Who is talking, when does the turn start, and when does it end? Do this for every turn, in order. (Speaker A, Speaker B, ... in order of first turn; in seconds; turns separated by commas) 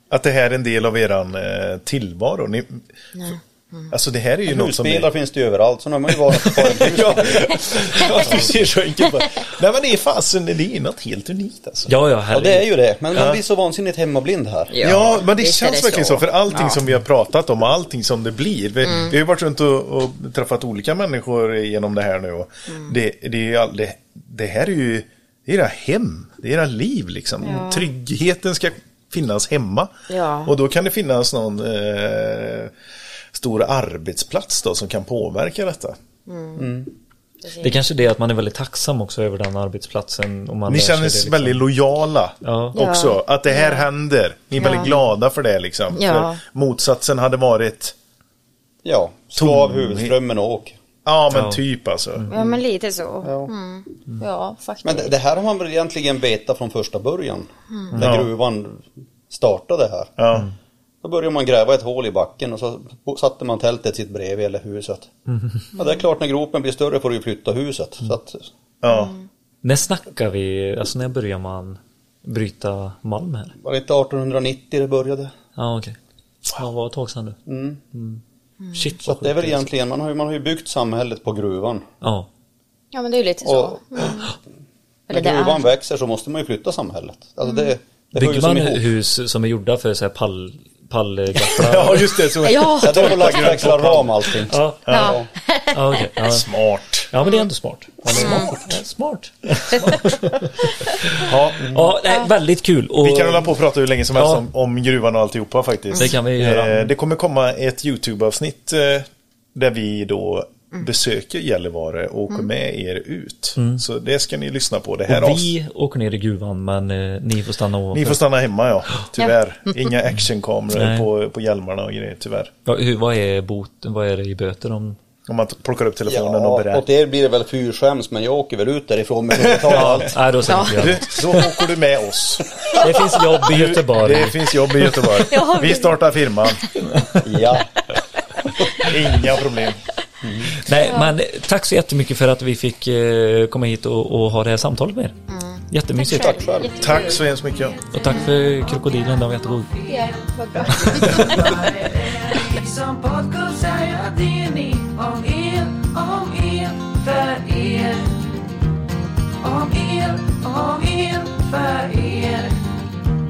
Speaker A: 0.1-2.9, Speaker B: 3.1-3.9, Speaker A: 3.9-5.1, Speaker C: 4.5-7.5, Speaker A: 6.5-11.9, Speaker D: 11.9-12.7, Speaker C: 12.3-15.1, Speaker A: 13.2-13.4, Speaker B: 14.7-16.8, Speaker A: 14.8-29.9, Speaker B: 18.8-19.1, Speaker B: 27.4-27.9, Speaker B: 30.1-30.5, Speaker A: 30.4-32.7, Speaker A: 33.3-36.0, Speaker B: 36.3-36.7, Speaker C: 36.6-36.9, Speaker B: 37.4-37.8, Speaker D: 37.6-41.6, Speaker A: 40.7-48.0, Speaker D: 42.4-42.8, Speaker B: 42.8-43.9, Speaker B: 44.6-44.9, Speaker C: 44.7-45.0, Speaker B: 45.9-46.4, Speaker C: 48.8-50.8, Speaker A: 49.4-50.2, Speaker A: 51.0-52.3, Speaker D: 51.3-51.6, Speaker B: 52.3-55.1, Speaker C: 52.3-52.6, Speaker C: 53.2-53.5, Speaker C: 54.8-60.2, Speaker A: 58.0-58.3, Speaker A: 60.2-60.5, Speaker C: 61.0-65.1, Speaker D: 65.3-65.7, Speaker C: 65.8-68.5, Speaker A: 68.8-69.2, Speaker B: 68.9-69.2, Speaker D: 69.6-73.5, Speaker C: 73.6-75.3, Speaker D: 75.6-76.0, Speaker D: 76.5-77.4, Speaker C: 77.5-77.8, Speaker D: 77.9-78.2, Speaker D: 78.7-79.7, Speaker C: 79.0-81.9, Speaker D: 82.0-82.3, Speaker B: 82.9-84.3, Speaker C: 83.4-84.2, Speaker B: 85.1-85.7, Speaker C: 85.1-88.8, Speaker B: 87.5-87.7, Speaker D: 88.2-92.3, Speaker A: 91.5-94.2, Speaker B: 92.4-93.6, Speaker C: 92.8-95.3, Speaker D: 93.4-95.1, Speaker A: 94.9-95.2, Speaker B: 94.9-95.8, Speaker D: 95.7-96.5, Speaker A: 96.3-97.1, Speaker D: 97.1-103.5, Speaker C: 98.1-98.6, Speaker A: 98.1-98.5, Speaker B: 98.1-98.5, Speaker A: 101.2-101.7, Speaker C: 101.6-101.9, Speaker A: 103.0-115.5, Speaker D: 104.1-104.4, Speaker D: 105.9-106.9, Speaker D: 113.6-113.8, Speaker D: 115.1-118.2, Speaker A: 117.9-122.5, Speaker D: 120.7-121.1, Speaker D: 122.7-125.0, Speaker A: 125.3-126.8, Speaker C: 126.1-130.2, Speaker A: 129.4-136.7, Speaker D: 129.7-131.5, Speaker B: 130.5-130.9, Speaker D: 132.7-135.1, Speaker B: 135.1-136.0, Speaker C: 137.2-137.7, Speaker A: 138.8-139.8, Speaker C: 140.2-140.6, Speaker D: 140.5-145.2, Speaker B: 140.7-141.1, Speaker B: 145.3-147.2, Speaker D: 145.7-146.4, Speaker C: 146.1-146.8, Speaker A: 146.8-147.8, Speaker E: 146.8-158.4, Speaker D: 147.9-149.7, Speaker B: 149.9-151.6, Speaker D: 150.8-151.4, Speaker E: 159.4-162.6